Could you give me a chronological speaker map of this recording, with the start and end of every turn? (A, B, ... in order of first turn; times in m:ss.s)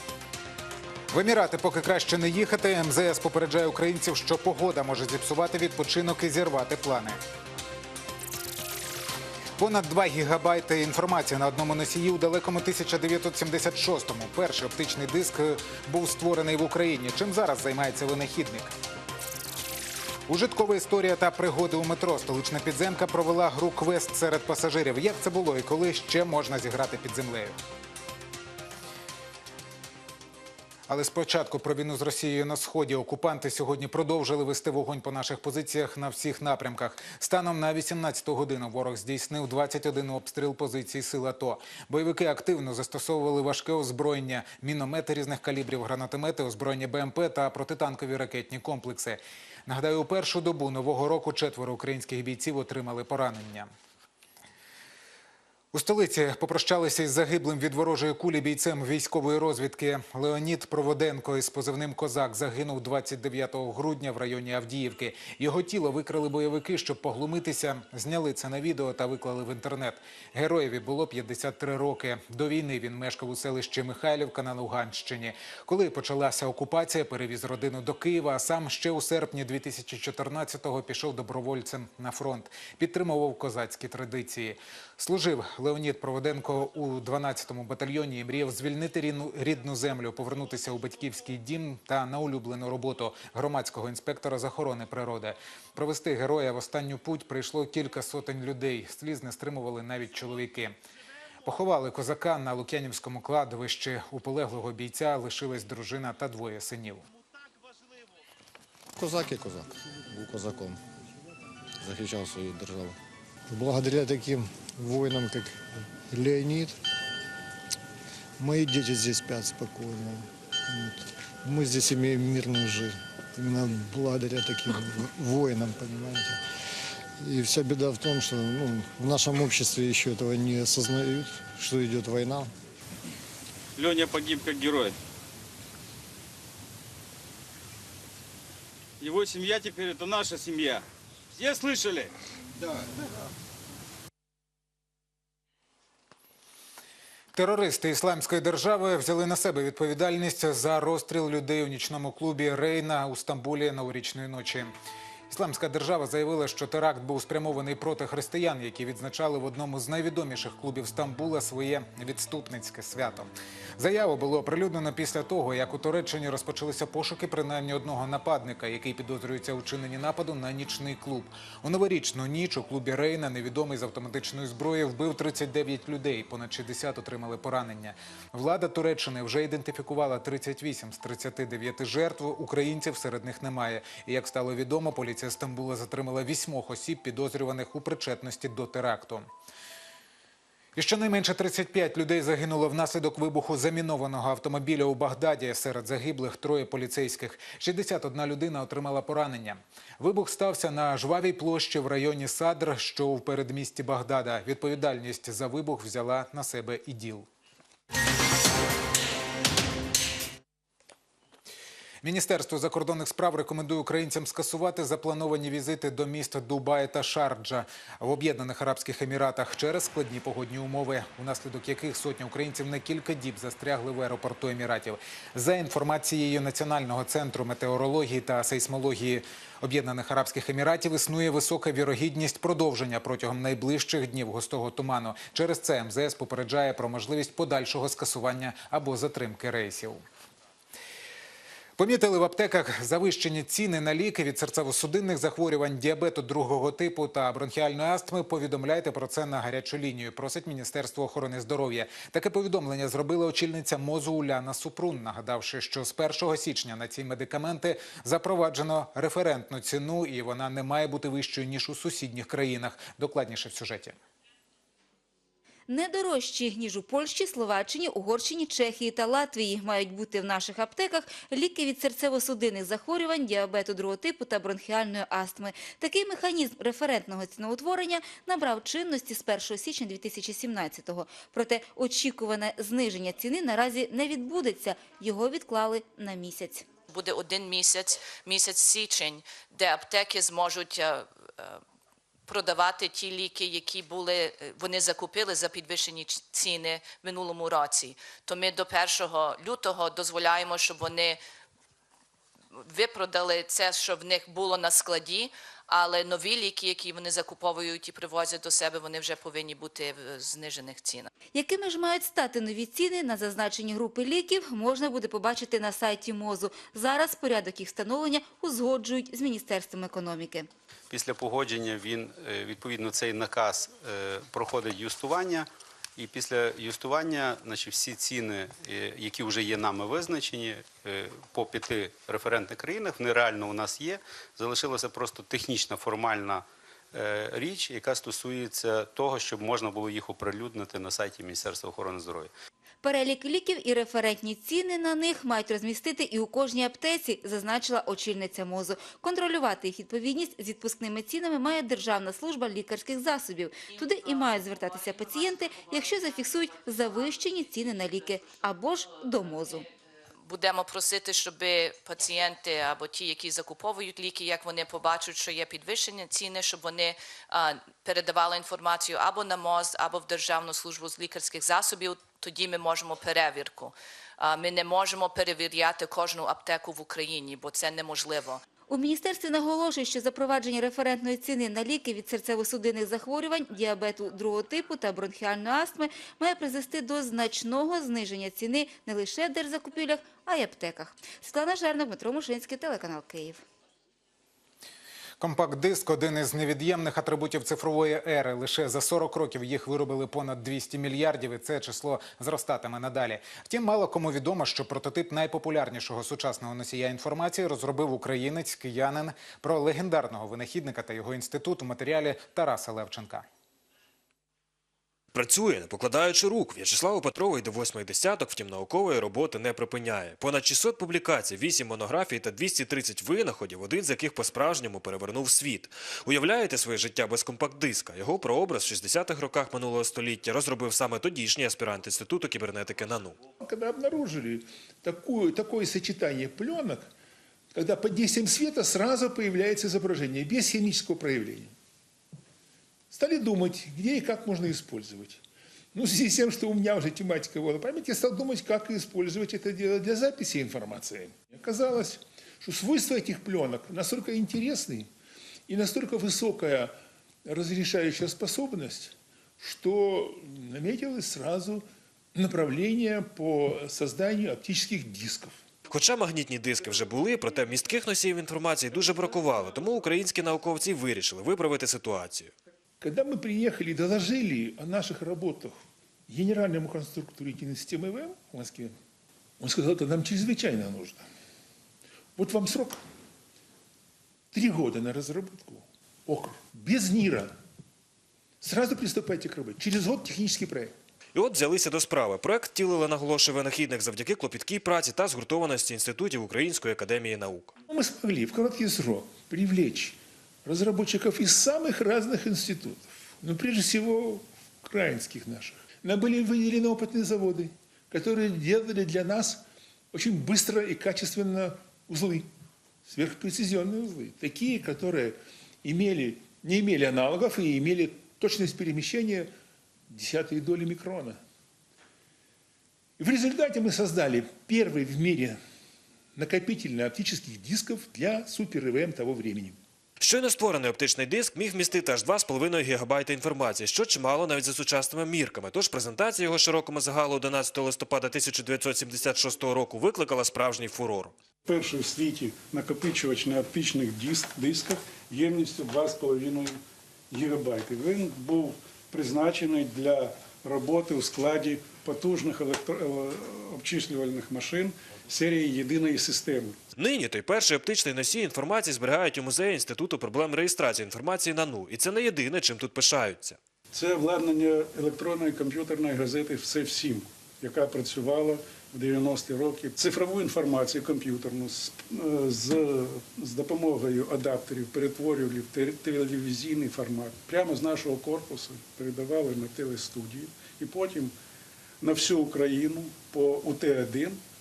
0:01.1-0:07.2 A
0:09.6-0:18.7 A
0:20.3-0:27.6 A
0:30.9-0:53.7 A
0:55.7-1:40.8 A
1:41.4-1:47.0 A
1:49.0-1:50.8 B
1:51.8-1:52.9 B
1:53.5-1:56.8 B
1:58.4-2:06.4 B
2:07.2-2:12.5 B
2:13.8-2:14.9 C
2:19.0-2:20.6 C
2:21.5-2:22.0 C
2:27.3-2:34.7 A
2:35.3-3:09.2 A
3:10.8-3:27.3 A
3:32.0-4:00.0 A
4:01.8-4:24.0 A
4:25.7-4:46.6 D
4:46.9-4:51.6 E
4:52.3-5:01.2 E
5:02.6-5:11.1 E
5:11.3-5:20.5 D
5:20.9-5:42.3 F
5:42.8-5:59.6 D
6:00.2-6:18.4 E
6:18.7-6:33.4 D
6:35.2-6:53.2 A
6:55.1-7:13.2 G
7:13.4-7:16.9 H
7:17.5-7:21.5 H
7:22.9-7:25.2 H
7:25.7-7:34.9 H
7:35.5-7:45.4 H
7:45.7-7:52.3 G
7:52.8-7:58.7 H
7:59.4-8:01.0 H
8:02.2-8:02.8 H
8:04.3-8:07.3 H
8:08.4-8:10.7 H
8:11.1-8:17.5 G
8:17.7-8:32.3 H
8:32.8-8:39.3 H
8:39.9-8:41.2 H
8:43.0-8:45.4 H
8:46.2-8:49.6 H
8:50.0-9:01.1 G
9:01.4-9:16.6 I
9:16.8-9:23.4 G
9:23.7-9:41.1 I
9:41.8-9:44.2 I